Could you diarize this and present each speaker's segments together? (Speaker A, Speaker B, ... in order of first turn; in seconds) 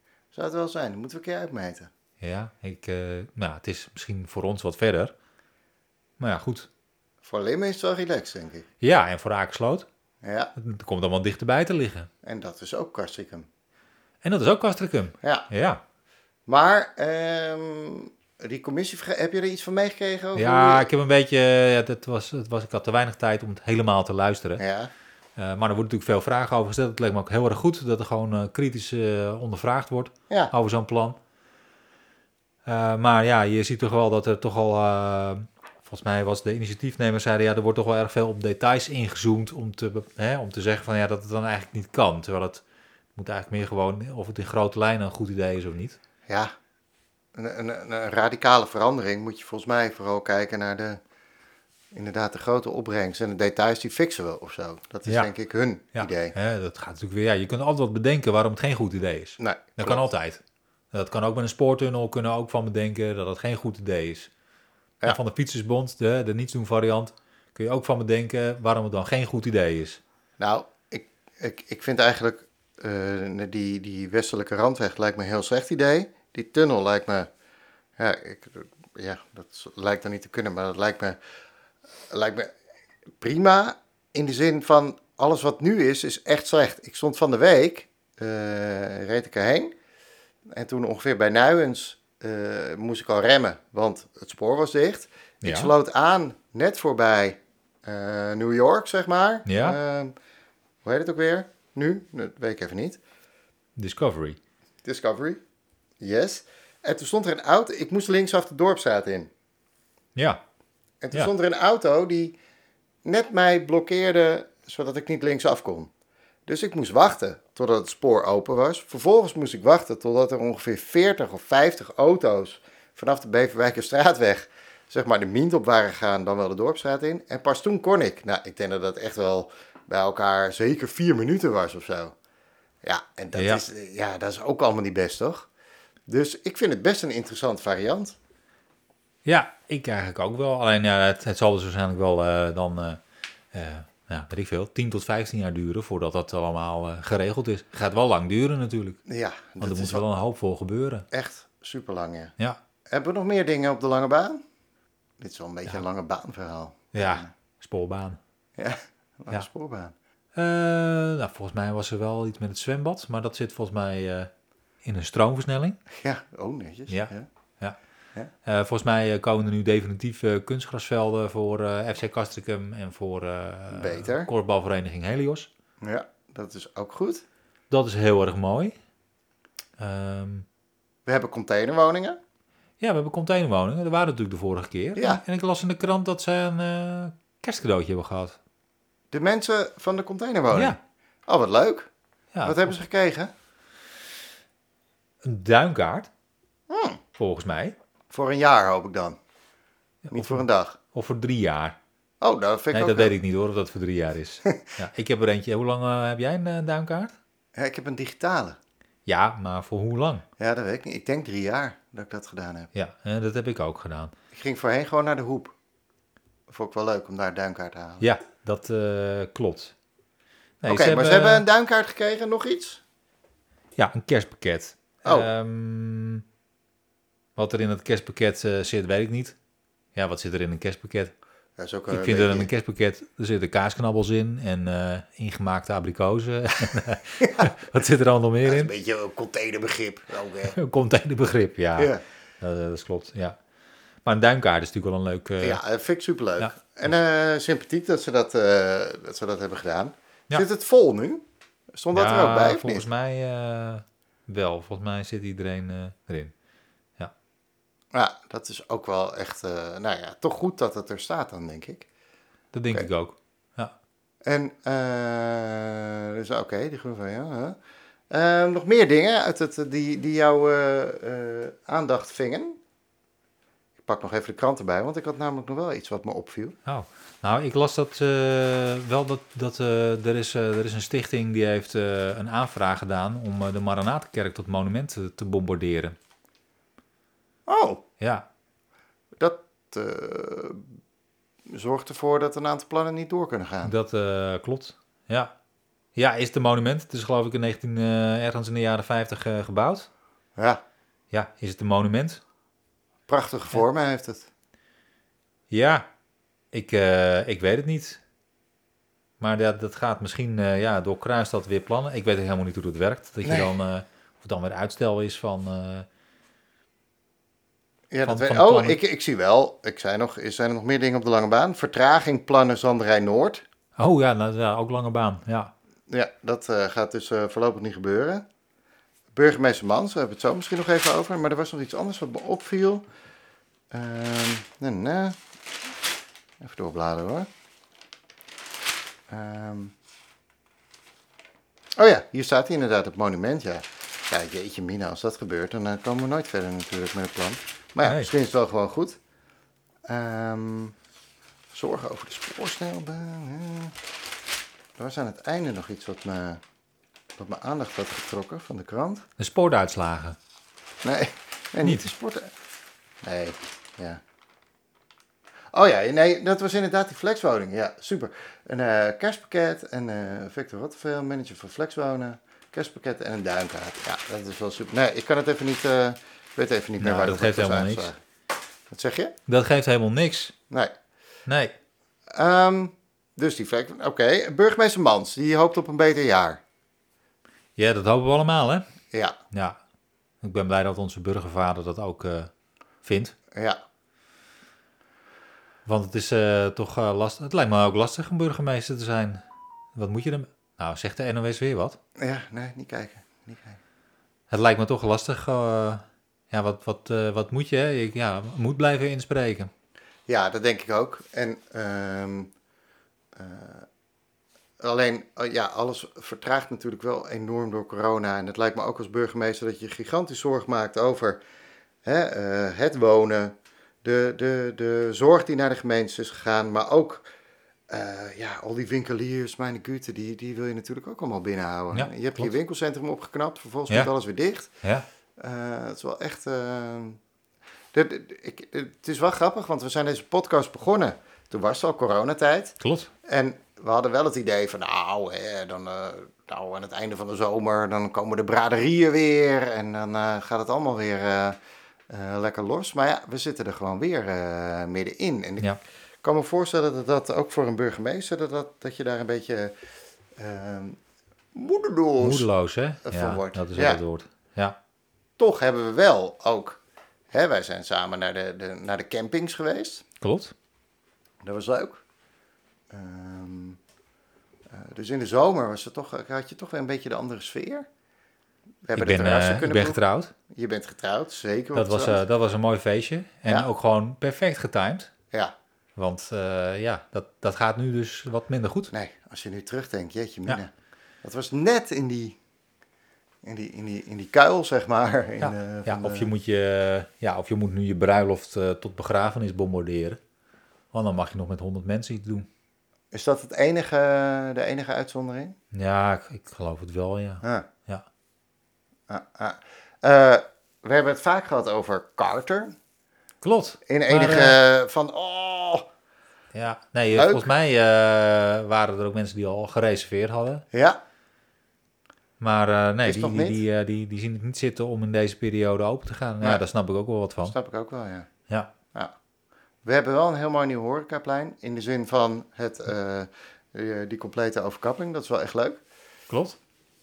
Speaker A: 0.3-1.9, 7.2-8.7, 10.2-10.5, 12.2-13.5, 15.2-15.5, 16.5-20.9, 24.6-24.9, 46.3-46.5, 47.4-51.0, 51.9-56.3, 59.4-60.0, 70.4-77.3, 78.0-81.2, 82.1-82.5, 83.2-89.7, 90.5-100.1, 100.8-103.0, 104.8-105.4, 106.0-109.3, 111.0-112.4, 113.0-115.9, 116.5-132.2, 132.8-135.5, 136.1-138.2, 149.1-150.0, 151.1-152.3, 152.9-154.4, 155.2-157.3, 158.6-159.9, 165.9-167.3, 173.7-174.3, 175.8-177.2, 181.1-182.2, 185.0-185.2, 189.1-191.9, 192.4-193.3, 196.7-197.0, 198.1-199.2, 200.1-200.8, 202.2-203.2, 207.6-208.6, 210.4-212.7, 214.3-215.6, 216.5-218.1, 220.6-222.8, 225.1-225.3, 231.6-232.5, 237.2-237.5, 238.4-240.6, 241.8-242.0, 245.4-251.2, 251.7-252.8, 257.9-261.9, 264.3-267.6, 268.1-272.6, 273.8-276.6, 287.5-287.8, 289.2-290.7, 291.5-293.7, 300.4-300.6, 303.1-304.3, 313.2-313.5, 317.9-323.4, 325.9-328.2, 329.1-332.8, 333.7-335.2, 336.4-337.3, 339.1-339.7, 341.8-349.0, 349.9-350.8, 351.5-353.8, 354.8-356.4, 357.2-359.1, 360.8-362.3, 363.0-364.0, 365.5-378.0, 378.7-379.1, 382.1-386.4, 388.9-389.2, 393.3-393.6, 402.0-403.6, 410.1-412.3, 413.2-413.7, 414.6-421.2, 421.8-427.1, 427.7-434.5, 435.2-437.0, 437.7-451.4, 451.9-455.5, 456.0-459.5, 460.2-460.8, 461.4-462.3, 462.9-463.8, 465.2-466.6, 467.1-469.8, 471.2-471.8, 472.7-473.6, 474.5-477.7, 478.6-479.8, 480.3-482.0, 488.7-490.5, 491.0-492.2, 493.2-496.1, 502.9-505.4, 507.2-507.5, 508.9-512.5, 513.7-515.7, 517.0-517.3, 520.5-520.8, 522.9-523.4, 527.2-528.1, 529.6-535.6
Speaker B: 2.2-5.1, 6.2-6.7, 8.8-9.9, 10.6-12.1, 14.2-15.8, 20.4-24.6, 25.4-31.2, 32.7-42.6, 43.2-46.0, 55.9-64.3, 65.0-70.0, 95.4-95.7, 99.5-99.8, 103.8-104.4, 110.2-110.4, 133.3-133.6, 139.2-143.0, 143.5-149.0, 149.6-151.1, 156.9-158.2, 160.3-164.3, 164.8-165.8, 166.9-167.8, 168.4-175.5, 177.7-178.8, 179.8-180.5, 182.8-188.4, 190.5-190.8, 192.3-192.7, 195.2-196.1, 197.2-197.8, 200.1-201.8, 202.7-207.2, 209.1-210.3, 212.7-214.1, 218.0-219.7, 220.6-221.5, 223.8-226.2, 227.4-229.4, 229.9-231.1, 231.9-238.7, 240.5-243.4, 244.1-245.6, 251.9-256.3, 262.5-263.7, 276.7-286.0, 288.0-288.3, 293.6-295.3, 295.9-299.9, 301.1-302.2, 305.5-305.9, 306.5-308.0, 309.2-315.9, 318.1-318.8, 323.8-325.5, 347.8-348.1, 359.2-360.2, 376.8-377.9, 379.3-380.3, 381.3-381.5, 387.6-388.7, 389.3-389.6, 390.2-392.3, 392.8-393.1, 395.7-399.2, 399.8-401.8, 404.3-409.5, 431.7-432.3, 442.6-442.9, 462.0-464.6, 470.0-470.3, 478.8-480.1, 481.6-484.9, 485.8-488.7, 495.2-500.0, 500.7-502.3, 505.5-507.9, 513.2-514.4, 516.3-520.5, 522.2-527.4, 536.1-536.4